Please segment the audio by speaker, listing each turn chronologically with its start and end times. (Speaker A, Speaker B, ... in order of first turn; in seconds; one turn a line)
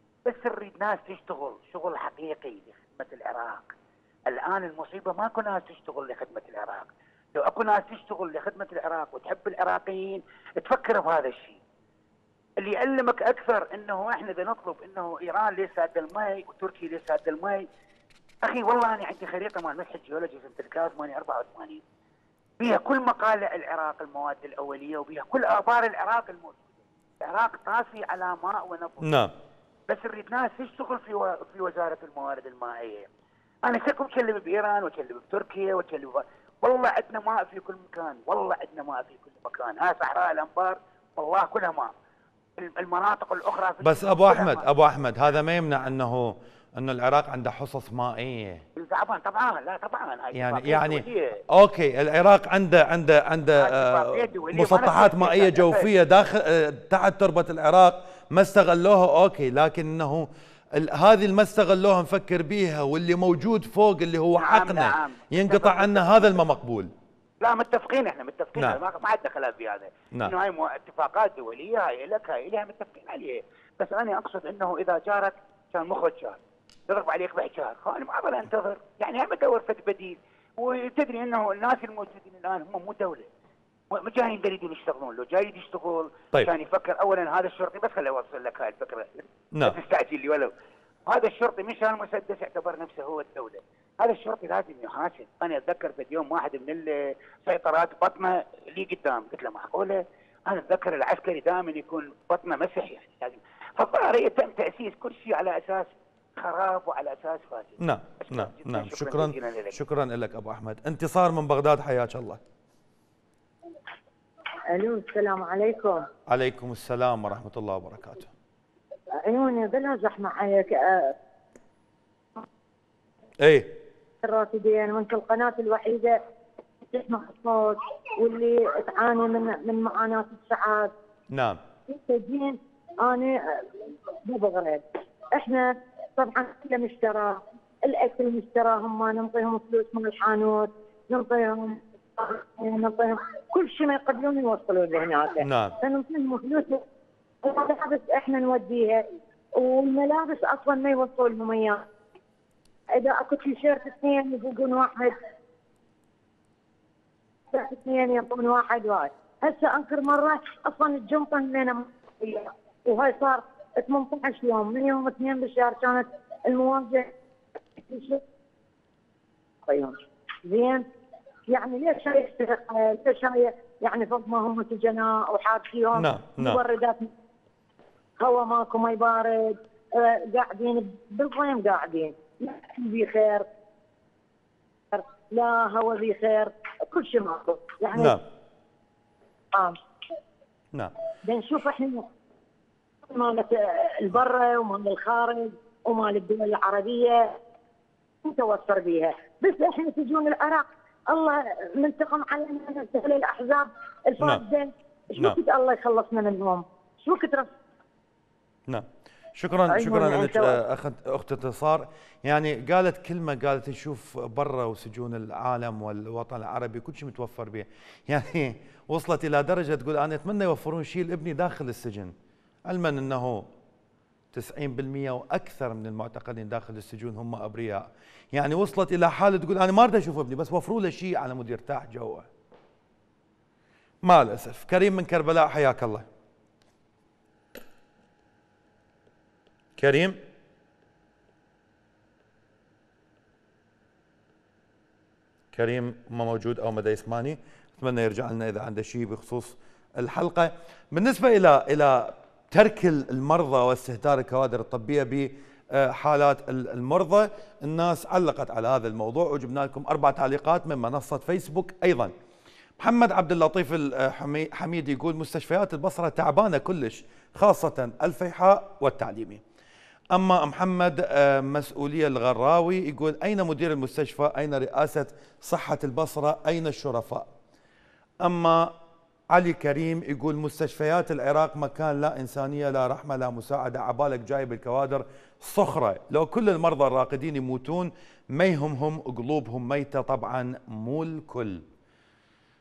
Speaker A: 0.2-3.7
Speaker A: 4.3-11.6
Speaker A: 12.6-17.6
Speaker A: 18.4-21.8
Speaker A: 22.6-29.2
Speaker B: 29.0-29.3
Speaker A: 29.9-33.1
Speaker A: 33.6-41.9
Speaker A: 42.6-44.6
Speaker B: 43.8-48.6
Speaker A: 48.8-51.4
Speaker B: 50.3-66.9
Speaker A: 53.6-55.9
Speaker A: 64.4-66.4
Speaker A: 67.4-83.3
Speaker A: 83.9-90.5
Speaker A: 91.1-109.8
Speaker B: 107.8-112.4
Speaker C: 114.7-116.0
Speaker B: 116.3-118.3
Speaker C: 119.2-121.1
Speaker B: 123.4-123.8
Speaker C: 124.2-126.2
Speaker C: 126.8-130.9
Speaker B: 131.3-131.6
Speaker C: 131.9-146.8
Speaker B: 145.4-145.8
Speaker C: 147.4-149.0
Speaker C: 149.6-151.8
Speaker C: 152.9-155.2
Speaker C: 157.5-167.1
Speaker C: 167.8-168.2
Speaker C: 169.7-170.8
Speaker C: 171.5-177.1
Speaker B: 175.9-176.6
Speaker C: 178.2-183.4
Speaker C: 184.9-188.2
Speaker B: 187.9-188.2
Speaker C: 191.2-192.0
Speaker C: 193.1-197.4
Speaker C: 198.2-207.5
Speaker B: 208.7-222.1
Speaker C: 209.7-210.6
Speaker B: 222.7-223.5
Speaker B: 224.3-232.3
Speaker B: 234.0-236.1
Speaker B: 239.8-240.2
Speaker B: 245.5-262.1
Speaker B: 262.8-269.4
Speaker B: 270.1-277.3
Speaker B: 278.2-278.7
Speaker B: 279.3-291.6